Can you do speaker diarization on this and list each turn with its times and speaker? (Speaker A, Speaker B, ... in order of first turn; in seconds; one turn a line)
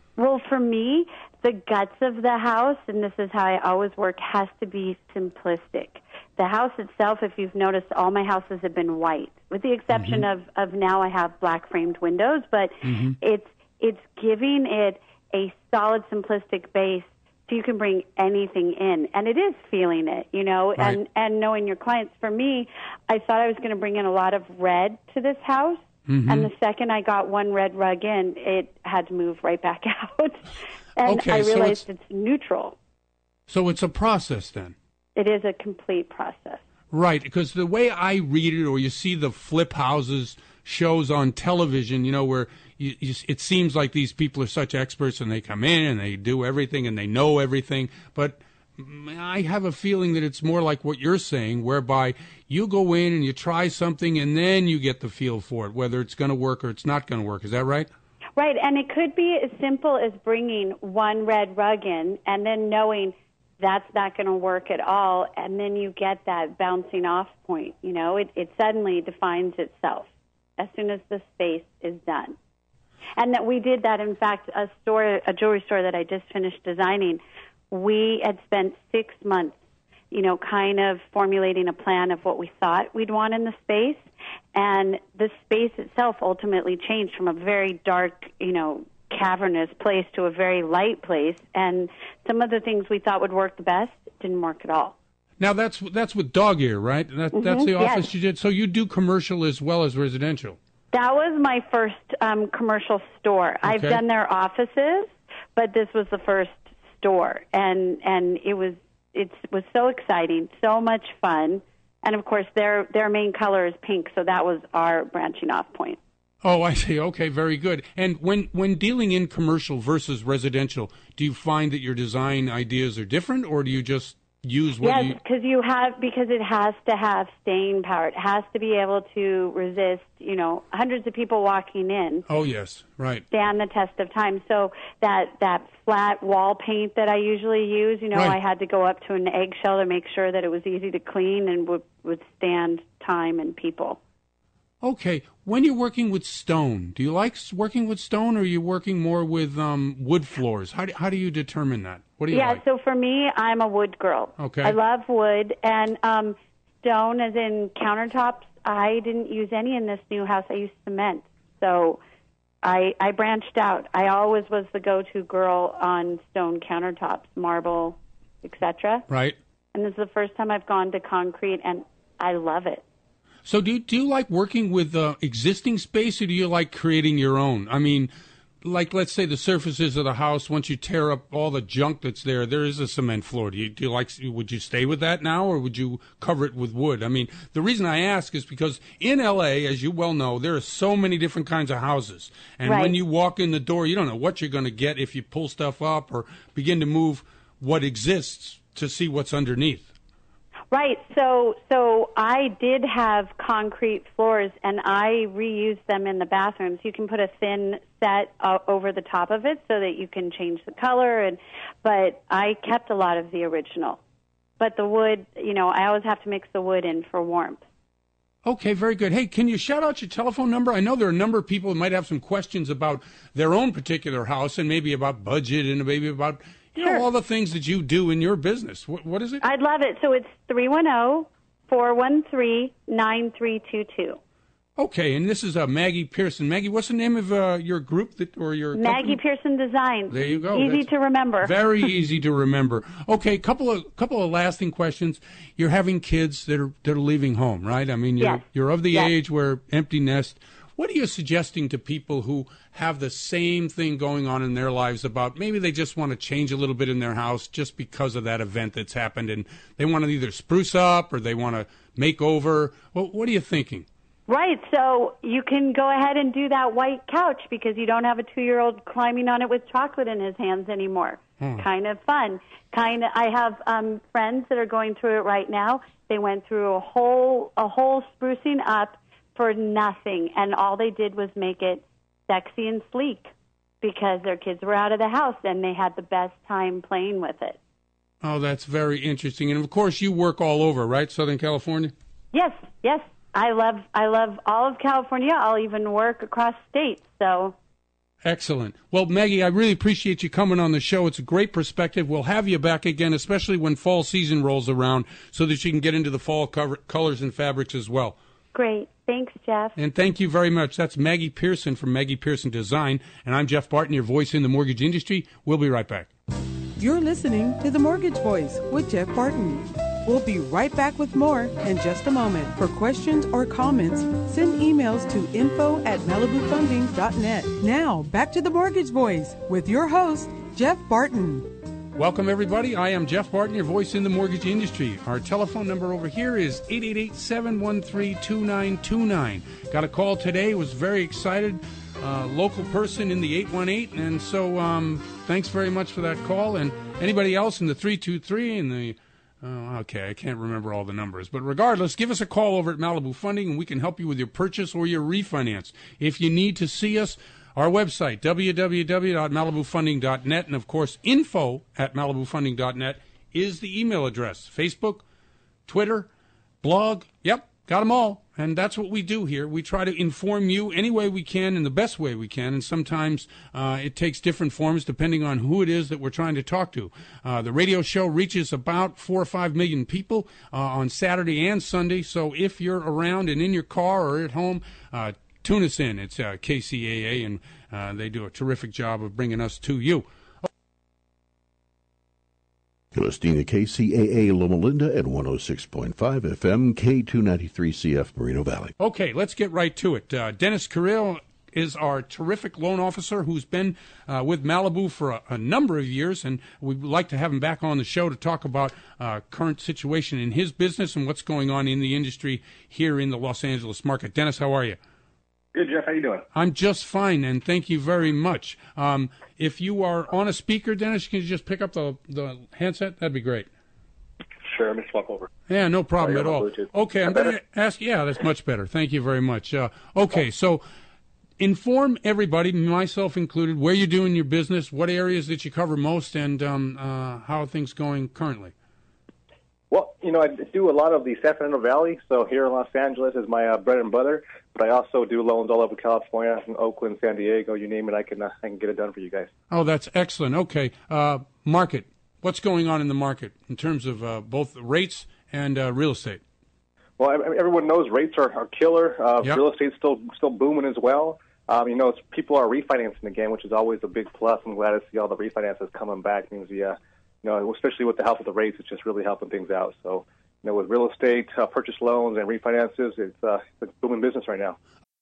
Speaker A: 0.2-32.8
Speaker B: 9.9-10.3
Speaker B: 12.8-13.2
Speaker B: 26.1-26.5
Speaker B: 31.1-31.8
Speaker B: 33.5-34.8
Speaker A: 35.2-36.6
Speaker B: 36.9-57.9
Speaker A: 58.4-72.3
Speaker A: 73.2-79.5
Speaker A: 80.1-95.0
Speaker B: 95.4-100.6
Speaker A: 97.3-98.1
Speaker A: 100.9-116.0
Speaker B: 103.7-104.0
Speaker B: 116.4-125.2
Speaker A: 124.8-132.2
Speaker B: 132.3-133.2
Speaker A: 133.3-144.0
Speaker B: 144.8-152.6
Speaker A: 152.3-162.0
Speaker B: 154.4-154.8
Speaker A: 162.6-169.1
Speaker B: 169.1-169.4
Speaker A: 169.7-172.8
Speaker B: 173.5-178.1
Speaker B: 178.6-199.9
Speaker A: 192.7-193.0
Speaker A: 200.7-214.0
Speaker A: 214.6-217.6
Speaker B: 218.4-229.4
Speaker A: 226.8-227.1
Speaker A: 229.4-234.2
Speaker B: 234.8-239.2
Speaker A: 238.8-241.5
Speaker B: 240.1-240.9
Speaker B: 241.4-263.9
Speaker A: 248.2-249.1
Speaker A: 264.3-283.3
Speaker B: 271.4-271.6
Speaker A: 283.8-287.6
Speaker B: 288.2-291.9
Speaker A: 292.3-297.6
Speaker B: 298.2-308.2
Speaker A: 308.6-309.8
Speaker B: 309.8-316.1
Speaker C: 316.8-331.5
Speaker B: 332.0-365.0
Speaker B: 365.7-366.1
Speaker B: 366.6-390.1
Speaker D: 392.9-398.7
Speaker B: 398.8-414.8
Speaker E: 415.5-416.3
Speaker B: 416.3-423.5
Speaker E: 424.4-425.3
Speaker B: 425.5-430.6
Speaker E: 426.0-427.2
Speaker B: 431.4-438.5
Speaker E: 439.7-449.3
Speaker B: 449.5-456.2
Speaker E: 457.0-474.6